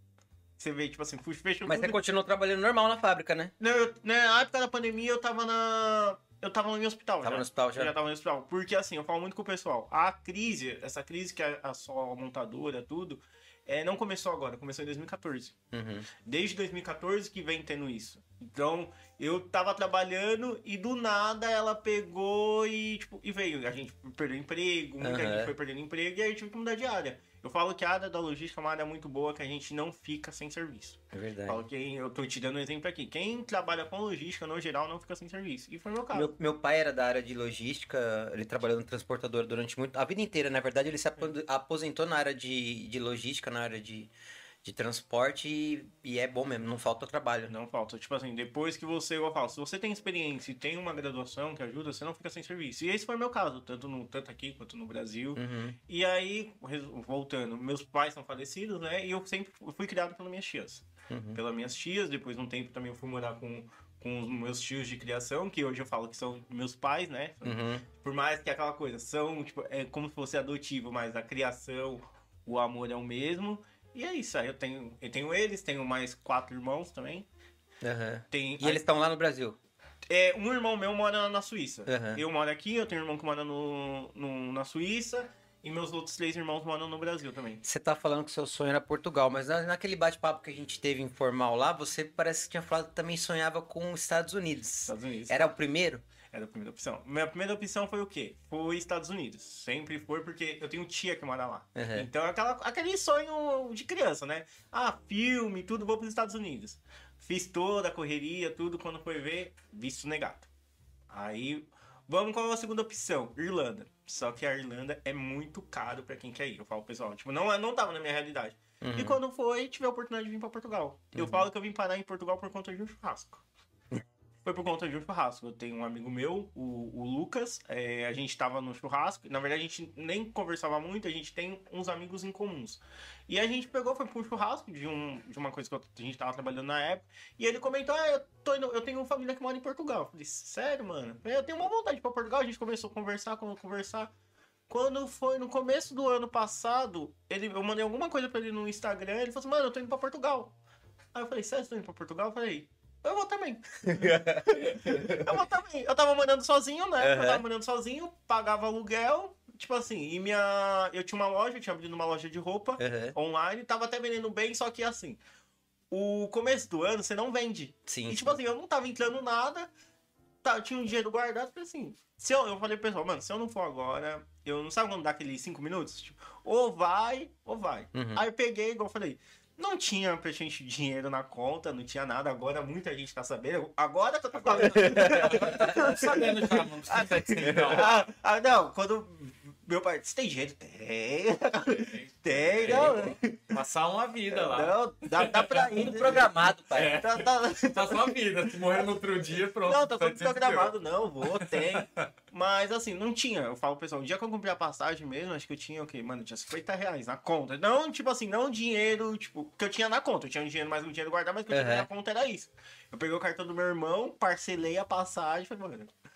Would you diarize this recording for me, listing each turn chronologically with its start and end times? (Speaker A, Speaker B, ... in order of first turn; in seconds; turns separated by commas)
Speaker A: 0.6-2.0, Speaker B: 1.6-3.5, Speaker A: 3.6-15.6, Speaker B: 7.2-7.9, Speaker B: 15.7-16.1, Speaker A: 16.2-36.3, Speaker B: 25.0-25.5, Speaker B: 31.1-31.6, Speaker B: 36.1-44.1, Speaker B: 44.6-47.5, Speaker A: 47.5-77.3, Speaker B: 55.4-55.8, Speaker B: 61.1-61.4, Speaker B: 67.4-67.9, Speaker B: 77.8-79.6, Speaker A: 78.3-78.8, Speaker A: 80.1-87.6, Speaker B: 81.9-82.2, Speaker B: 87.6-96.0, Speaker A: 94.9-95.5, Speaker A: 96.3-110.5, Speaker B: 101.8-102.1, Speaker A: 111.1-123.4, Speaker B: 118.8-119.2, Speaker B: 121.2-121.5, Speaker A: 124.5-144.1, Speaker A: 144.7-150.6, Speaker A: 151.1-165.2, Speaker B: 153.9-155.4, Speaker B: 157.0-157.4, Speaker B: 162.8-163.2, Speaker A: 165.9-169.7, Speaker B: 167.9-168.4, Speaker A: 170.4-193.5, Speaker B: 177.9-178.2, Speaker C: 184.3-188.0, Speaker B: 185.1-185.9, Speaker C: 191.7-202.1, Speaker A: 194.3-196.3, Speaker B: 195.7-197.0, Speaker A: 196.9-198.9, Speaker A: 199.7-215.9, Speaker B: 211.5-211.9